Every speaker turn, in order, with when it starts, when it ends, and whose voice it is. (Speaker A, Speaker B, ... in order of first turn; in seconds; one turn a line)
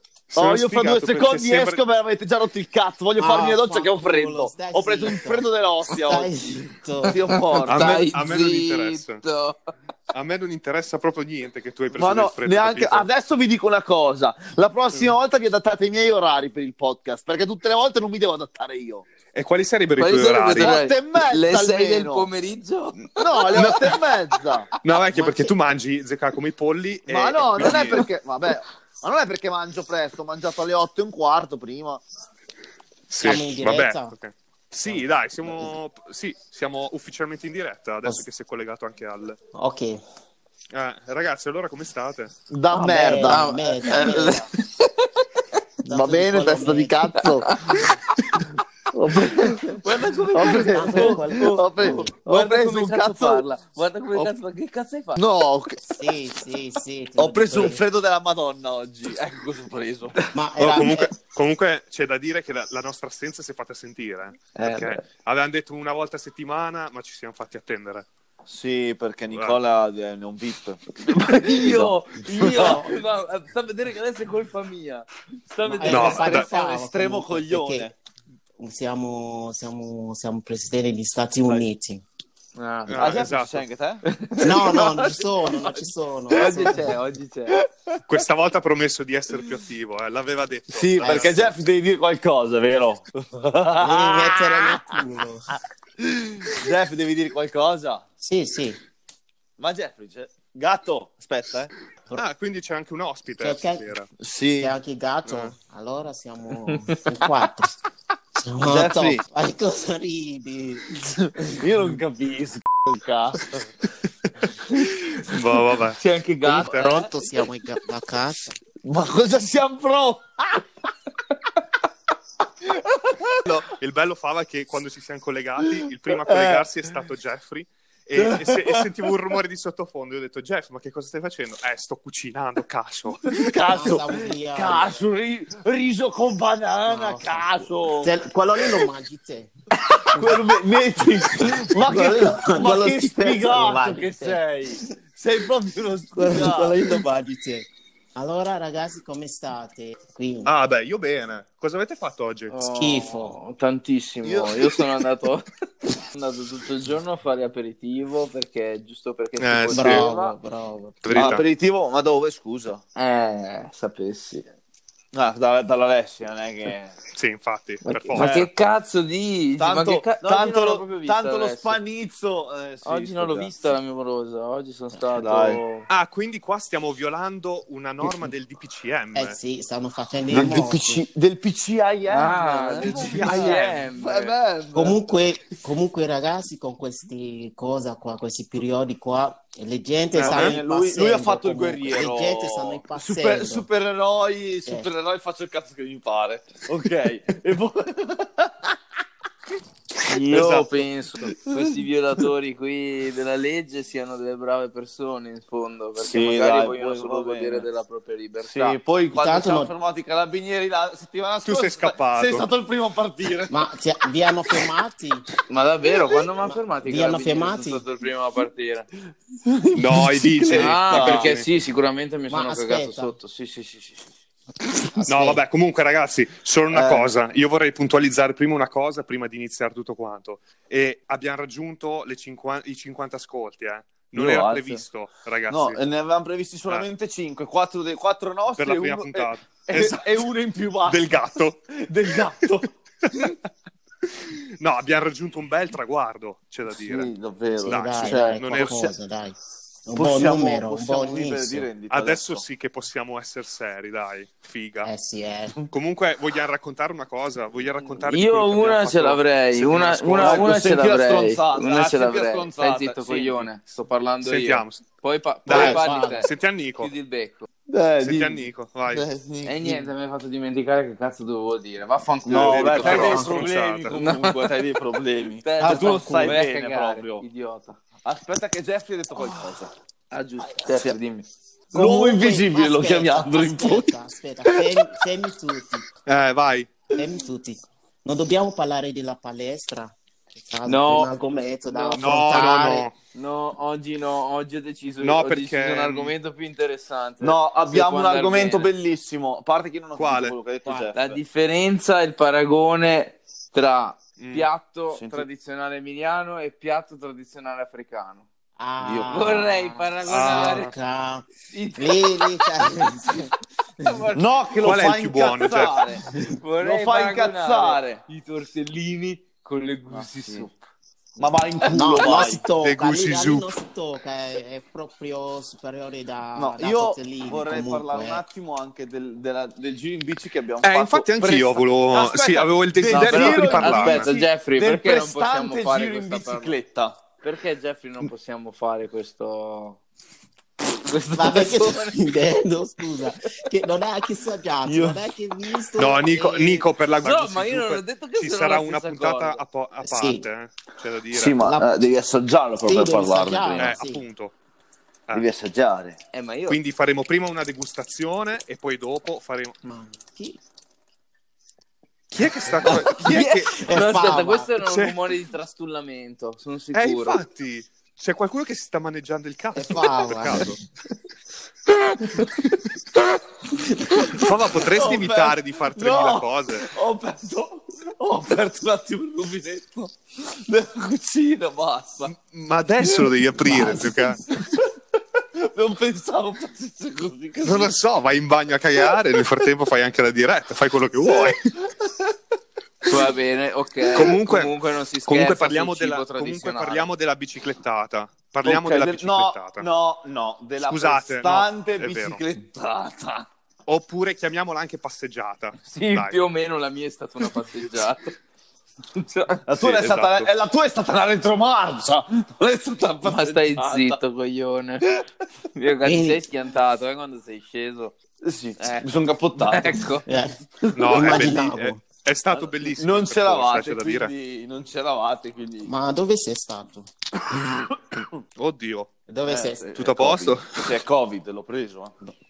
Speaker A: 0.3-1.8
Speaker B: 0.3-8.1
Speaker C: 3.2-7.3
Speaker D: 7.0-9.7
Speaker A: 7.7-9.2
Speaker A: 10.1-13.1
Speaker B: 11.9-19.1
Speaker A: 19.3-20.8
Speaker D: 20.0-23.8
Speaker B: 20.5-22.3
Speaker B: 23.1-24.7
Speaker A: 23.5-24.0
Speaker A: 24.8-28.1
Speaker D: 25.0-25.5
Speaker B: 27.1-32.0
Speaker A: 33.1-39.4
Speaker C: 33.2-34.1
Speaker C: 39.5-40.0
Speaker A: 40.7-42.3
Speaker B: 42.5-44.4
Speaker C: 42.7-44.5
Speaker D: 43.2-45.2
Speaker C: 45.8-47.0
Speaker B: 45.9-47.5
Speaker D: 47.4-48.4
Speaker B: 48.9-53.5
Speaker C: 50.3-52.1
Speaker D: 50.4-51.4
Speaker D: 52.2-55.2
Speaker B: 55.1-56.0
Speaker C: 55.9-57.8
Speaker B: 57.2-60.2
Speaker C: 60.3-61.1
Speaker A: 60.6-68.0
Speaker B: 64.6-64.9
Speaker B: 68.5-72.9
Speaker A: 69.3-69.6
Speaker D: 71.2-76.5
Speaker C: 72.5-72.9
Speaker C: 75.6-77.9
Speaker B: 75.8-77.9
Speaker A: 75.8-76.5
Speaker C: 78.6-82.0
Speaker D: 82.5-83.3
Speaker A: 82.9-83.7
Speaker B: 83.0-84.0
Speaker D: 84.0-85.7
Speaker C: 84.4-86.9
Speaker B: 84.6-85.0
Speaker D: 86.3-87.6
Speaker B: 86.5-86.8
Speaker A: 88.0-91.5
Speaker B: 90.7-95.0
Speaker C: 91.0-91.5
Speaker C: 93.8-95.5
Speaker B: 96.0-98.0
Speaker C: 98.2-98.8
Speaker B: 99.6-101.7
Speaker A: 102.1-104.1
Speaker C: 103.4-103.9
Speaker B: 104.2-104.7
Speaker C: 104.6-107.7
Speaker A: 105.2-105.5
Speaker D: 106.7-107.0
Speaker C: 108.3-110.9
Speaker B: 108.6-109.2
Speaker B: 110.9-113.6
Speaker A: 115.2-116.9
Speaker D: 115.9-117.1
Speaker C: 116.6-118.5
Speaker B: 118.8-120.6
Speaker B: 122.6-123.6
Speaker A: 123.5-133.5
Speaker B: 125.8-126.7
Speaker B: 128.2-129.1
Speaker B: 133.3-138.1
Speaker C: 133.7-135.0
Speaker C: 136.9-139.5
Speaker B: 139.9-147.0
Speaker C: 141.4-144.4
Speaker C: 146.1-150.5
Speaker A: 150.4-152.5
Speaker D: 152.5-155.4
Speaker C: 152.7-153.4
Speaker B: 154.2-154.8
Speaker D: 156.1-160.3
Speaker A: 159.4-160.1
Speaker C: 159.7-161.3
Speaker A: 161.0-161.4
Speaker B: 161.1-162.8
Speaker D: 162.9-164.5
Speaker B: 165.1-167.0
Speaker A: 167.1-168.4
Speaker D: 167.8-171.8
Speaker B: 168.2-168.5
Speaker B: 169.6-173.5
Speaker D: 172.8-175.9
Speaker B: 175.1-175.6
Speaker A: 175.9-179.4
Speaker C: 179.1-181.1
Speaker B: 180.3-185.1
Speaker D: 182.1-184.3
Speaker A: 182.8-183.7
Speaker C: 184.7-193.7
Speaker A: 190.1-190.6
Speaker B: 190.2-198.8
Speaker D: 200.0-208.8
Speaker B: 200.1-200.7
Speaker B: 206.0-207.7
Speaker B: 208.4-213.6
Speaker C: 209.1-209.7
Speaker A: 211.4-212.5
Speaker C: 213.5-215.3
Speaker D: 215.5-218.9
Speaker C: 216.4-217.8
Speaker B: 219.4-221.3
Speaker A: 219.7-221.5
Speaker D: 220.5-224.1
Speaker C: 222.3-223.2
Speaker C: 224.9-225.4
Speaker A: 225.1-235.8
Speaker B: 226.7-227.1
Speaker B: 234.1-234.8
Speaker B: 235.5-242.7
Speaker A: 238.6-240.1
Speaker A: 240.8-242.2
Speaker A: 243.0-243.3
Speaker A: 244.1-247.1
Speaker B: 246.7-248.9
Speaker C: 247.6-251.7
Speaker A: 247.7-248.9
Speaker B: 249.9-252.4
Speaker A: 251.9-254.9
Speaker C: 254.8-255.6
Speaker A: 255.7-260.3
Speaker D: 258.1-267.5
Speaker B: 260.1-263.5
Speaker A: 264.2-264.8
Speaker A: 265.4-266.9
Speaker C: 265.5-266.3
Speaker B: 267.7-269.9
Speaker A: 268.0-269.0
Speaker D: 269.4-273.2
Speaker B: 272.2-277.2
Speaker A: 272.3-274.0
Speaker C: 273.0-273.3
Speaker D: 273.9-274.6
Speaker D: 275.4-277.8
Speaker C: 275.6-276.4
Speaker B: 278.0-279.7
Speaker D: 280.1-281.2
Speaker B: 280.6-281.0
Speaker B: 281.7-284.9
Speaker C: 281.7-285.9
Speaker A: 286.1-286.7
Speaker C: 286.9-292.9
Speaker D: 290.6-291.1
Speaker D: 291.6-292.5
Speaker A: 291.9-292.9
Speaker D: 293.1-298.7
Speaker A: 295.0-296.1
Speaker B: 297.2-301.2
Speaker A: 299.9-300.4
Speaker C: 300.6-300.9
Speaker D: 300.9-308.3
Speaker A: 304.2-304.5
Speaker B: 304.9-305.2
Speaker C: 308.6-313.3
Speaker B: 308.8-309.4
Speaker D: 309.1-310.7
Speaker A: 310.1-310.7
Speaker D: 311.5-312.3
Speaker D: 313.8-314.2
Speaker B: 314.1-316.1
Speaker A: 314.6-315.8
Speaker D: 316.4-320.5
Speaker B: 316.6-318.0
Speaker B: 319.9-320.5
Speaker B: 321.2-322.4
Speaker C: 321.7-328.2
Speaker A: 322.6-323.5
Speaker B: 326.4-337.0
Speaker A: 330.6-334.1
Speaker D: 332.9-336.6
Speaker D: 337.2-339.8
Speaker D: 340.8-342.0
Speaker C: 341.1-346.7
Speaker B: 344.6-345.0
Speaker A: 345.8-351.4
Speaker D: 347.0-349.4
Speaker C: 349.8-350.2
Speaker B: 351.1-353.7
Speaker C: 351.4-351.7
Speaker C: 352.6-354.0
Speaker A: 353.6-354.3
Speaker B: 355.1-356.0
Speaker D: 356.1-356.6
Speaker A: 356.5-359.6
Speaker C: 359.6-360.4
Speaker A: 362.1-363.7
Speaker D: 362.9-367.2
Speaker C: 363.4-364.5
Speaker A: 364.6-365.0
Speaker A: 366.7-370.6
Speaker C: 369.5-370.6
Speaker C: 373.5-374.2
Speaker A: 374.1-376.7
Speaker B: 374.2-382.1
Speaker A: 382.0-384.2
Speaker B: 382.8-387.7
Speaker A: 387.4-391.4
Speaker B: 391.1-392.0
Speaker D: 392.9-396.9
Speaker A: 393.9-399.7
Speaker B: 398.4-403.3
Speaker A: 400.6-402.2
Speaker A: 403.6-406.2
Speaker D: 405.6-408.1
Speaker D: 408.9-409.4
Speaker B: 409.4-414.0
Speaker A: 409.6-410.3
Speaker D: 413.0-414.9
Speaker D: 415.5-417.9
Speaker C: 415.8-416.2
Speaker B: 418.2-419.9
Speaker D: 418.6-418.9
Speaker D: 419.4-420.1
Speaker C: 420.1-421.8
Speaker B: 420.6-421.1
Speaker A: 420.7-424.1
Speaker B: 422.3-425.7
Speaker C: 425.6-426.9
Speaker B: 427.3-428.1
Speaker A: 428.4-428.9
Speaker C: 429.1-429.7
Speaker B: 429.2-432.1
Speaker A: 429.7-430.8